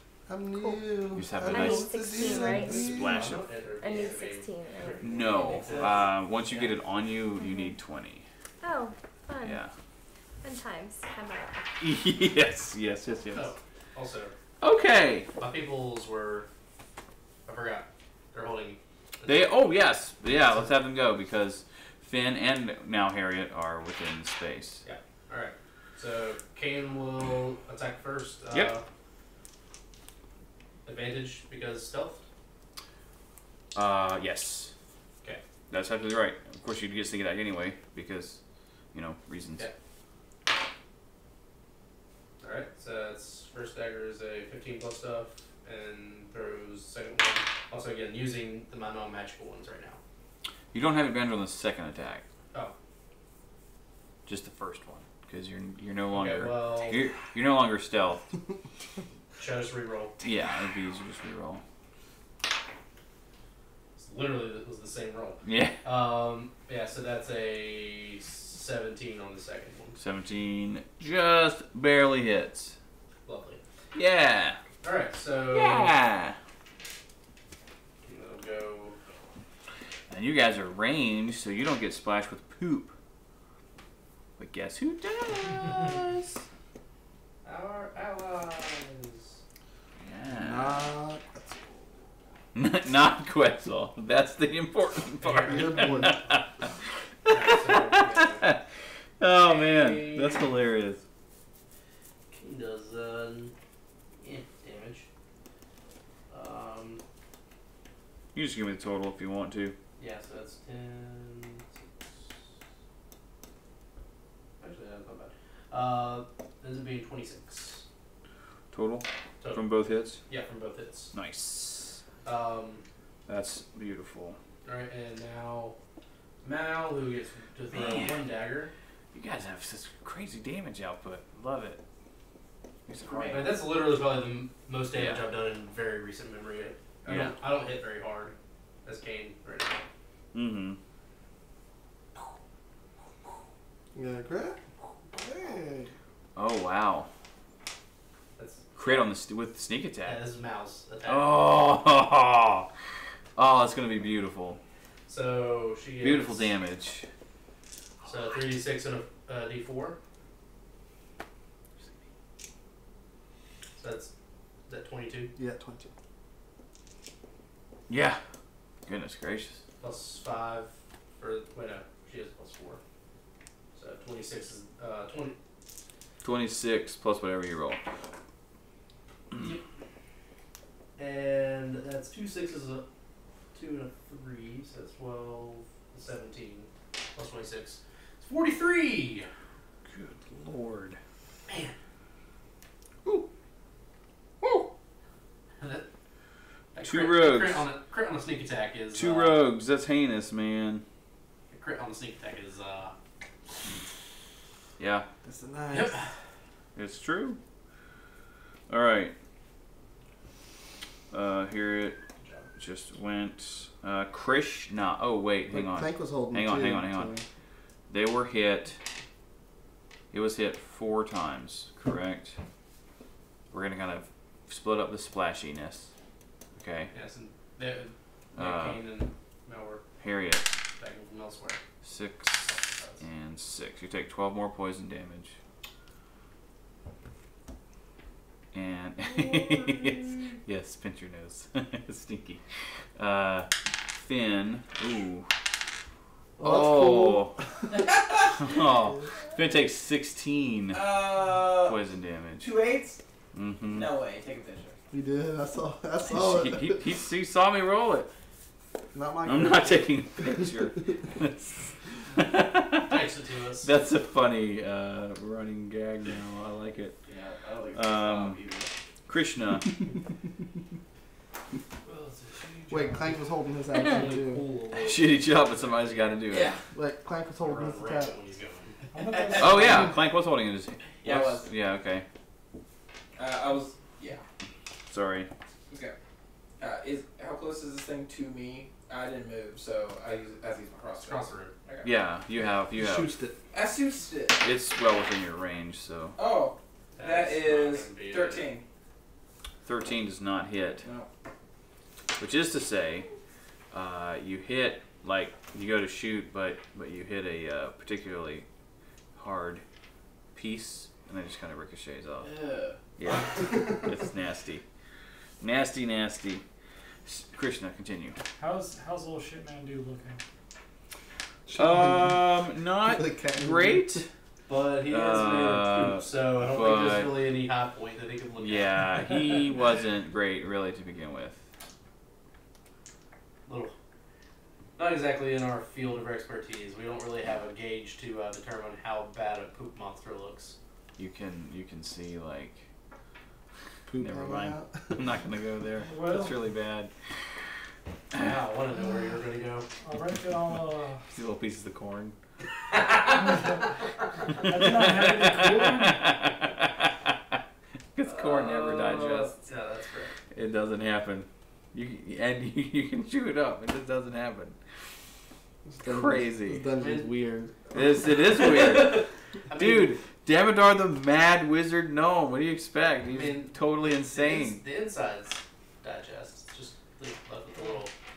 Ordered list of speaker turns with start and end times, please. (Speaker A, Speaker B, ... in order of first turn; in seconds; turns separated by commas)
Speaker A: 0.3-3.2, Speaker B: 1.1-3.4, Speaker C: 1.4-3.1, Speaker D: 2.5-6.8, Speaker C: 3.8-5.0, Speaker B: 5.0-8.2, Speaker E: 5.2-6.1, Speaker C: 7.3-7.8, Speaker C: 8.6-9.6, Speaker B: 9.4-9.7, Speaker C: 10.4-11.6, Speaker B: 11.8-13.5, Speaker D: 13.3-14.3, Speaker B: 14.6-15.3, Speaker D: 15.4-16.5, Speaker D: 17.4-19.5, Speaker B: 19.2-24.8, Speaker D: 24.8-28.8, Speaker D: 30.8-32.2, Speaker B: 33.7-34.7, Speaker B: 35.7-38.4, Speaker B: 38.9-39.7, Speaker D: 42.4-50.0, Speaker B: 50.7-52.2, Speaker B: 54.2-58.2, Speaker D: 56.1-57.1, Speaker D: 59.4-60.2, Speaker B: 60.2-61.6, Speaker D: 64.0-70.0, Speaker B: 65.4-65.8, Speaker B: 70.0-72.8, Speaker D: 73.2-73.6, Speaker B: 73.9-74.6, Speaker D: 74.8-75.9, Speaker B: 75.5-76.4, Speaker D: 78.0-79.0, Speaker B: 80.1-82.9, Speaker B: 84.4-86.4, Speaker D: 87.4-89.4, Speaker B: 90.0-90.9, Speaker A: 90.3-92.1, Speaker B: 92.5-96.4, Speaker D: 95.2-96.2, Speaker A: 95.5-96.2, Speaker B: 97.2-98.6, Speaker D: 97.3-98.5, Speaker B: 99.2-101.0, Speaker D: 99.4-100.5, Speaker D: 102.3-103.5, Speaker D: 104.2-105.1, Speaker D: 106.3-107.0, Speaker B: 108.3-109.8, Speaker D: 110.0-112.4, Speaker D: 114.6-117.8, Speaker B: 118.7-120.2, Speaker D: 119.4-119.7, Speaker D: 120.2-121.1, Speaker B: 121.1-122.0, Speaker D: 122.2-122.8, Speaker B: 123.3-124.4, Speaker D: 124.6-125.8, Speaker D: 126.4-128.7, Speaker B: 127.7-128.2, Speaker B: 129.1-131.8, Speaker B: 132.9-133.5, Speaker E: 133.0-133.5, Speaker D: 133.3-139.8, Speaker B: 134.9-135.2, Speaker B: 137.0-137.3, Speaker B: 140.3-140.8, Speaker A: 143.9-144.6, Speaker A: 145.1-145.9, Speaker B: 146.3-147.1, Speaker D: 148.4-149.1, Speaker B: 148.8-150.2, Speaker D: 150.0-151.3, Speaker B: 151.1-152.7, Speaker B: 153.3-154.6, Speaker D: 155.1-156.5, Speaker B: 156.0-157.1, Speaker D: 158.0-160.0, Speaker D: 163.8-164.1, Speaker D: 164.7-165.3, Speaker A: 165.4-165.9, Speaker B: 167.9-168.2, Speaker B: 168.8-169.6, Speaker D: 169.8-172.8, Speaker D: 173.7-175.3, Speaker B: 176.2-177.8, Speaker D: 179.3-179.6, Speaker D: 181.0-182.8, Speaker D: 183.5-189.3, Speaker B: 189.8-191.0, Speaker D: 191.5-191.8, Speaker B: 194.4-194.7, Speaker D: 195.6-195.9, Speaker D: 196.7-199.4, Speaker B: 196.8-197.6, Speaker B: 198.9-200.8, Speaker D: 201.5-202.9, Speaker B: 204.8-205.1, Speaker A: 205.2-206.0, Speaker D: 205.7-206.1, Speaker B: 206.7-207.4, Speaker B: 208.7-209.1, Speaker B: 211.1-212.0, Speaker B: 212.6-217.2, Speaker A: 215.5-217.2, Speaker B: 217.9-218.8, Speaker B: 220.1-222.4, Speaker B: 223.5-225.9, Speaker B: 226.6-226.9, Speaker D: 226.9-229.8, Speaker B: 228.3-228.8, Speaker B: 230.0-230.5, Speaker D: 230.8-231.6, Speaker B: 231.8-235.4, Speaker D: 232.4-233.0, Speaker B: 238.5-245.3, Speaker B: 246.4-247.4, Speaker A: 246.4-247.7, Speaker E: 247.7-248.5, Speaker B: 248.4-250.9, Speaker E: 250.7-251.8, Speaker B: 251.6-252.5, Speaker E: 252.4-253.0, Speaker B: 253.3-253.9, Speaker E: 253.7-254.8, Speaker A: 254.9-256.9, Speaker B: 256.1-258.1, Speaker A: 258.9-260.7, Speaker B: 259.2-263.0, Speaker D: 262.8-263.7, Speaker B: 263.6-267.0, Speaker E: 267.1-268.7, Speaker B: 267.7-268.4, Speaker B: 269.1-269.7, Speaker D: 271.9-273.2, Speaker A: 272.7-274.4, Speaker D: 273.7-276.1, Speaker B: 274.7-276.5, Speaker E: 276.3-276.6, Speaker A: 276.7-278.2, Speaker D: 277.4-278.8, Speaker F: 278.9-279.9, Speaker E: 278.9-279.9, Speaker B: 279.4-282.0, Speaker E: 281.0-281.5, Speaker E: 283.1-284.2, Speaker B: 284.9-285.3, Speaker E: 285.7-285.9, Speaker E: 286.6-291.9, Speaker D: 291.0-291.5, Speaker B: 291.8-293.1, Speaker A: 292.7-293.4, Speaker E: 293.5-294.4, Speaker B: 294.4-296.2, Speaker E: 296.1-298.6, Speaker D: 296.9-298.5, Speaker B: 299.6-300.9, Speaker E: 300.8-301.1, Speaker B: 302.2-303.1, Speaker B: 303.7-308.4, Speaker B: 309.1-309.6, Speaker B: 310.3-312.3, Speaker E: 312.2-312.8, Speaker B: 313.0-314.6, Speaker B: 315.4-316.4, Speaker B: 317.1-318.2, Speaker F: 318.4-320.2, Speaker A: 321.5-322.2, Speaker B: 321.5-324.0, Speaker A: 322.9-324.1, Speaker D: 324.5-328.8, Speaker B: 324.9-327.2, Speaker B: 328.4-331.5, Speaker D: 333.5-333.7, Speaker D: 334.8-340.6, Speaker B: 341.0-342.7, Speaker A: 343.9-345.1, Speaker B: 343.9-347.4, Speaker F: 345.8-346.4, Speaker D: 348.1-349.7, Speaker F: 349.8-351.0, Speaker B: 351.1-352.1, Speaker D: 352.7-353.5, Speaker F: 353.3-353.6, Speaker F: 354.3-356.1, Speaker B: 354.3-357.1, Speaker B: 357.9-359.4, Speaker D: 358.0-360.2, Speaker B: 360.3-364.8, Speaker A: 365.6-367.9, Speaker B: 365.8-366.7, Speaker D: 366.8-367.1, Speaker B: 367.7-374.6, Speaker D: 368.2-370.0, Speaker D: 373.1-377.9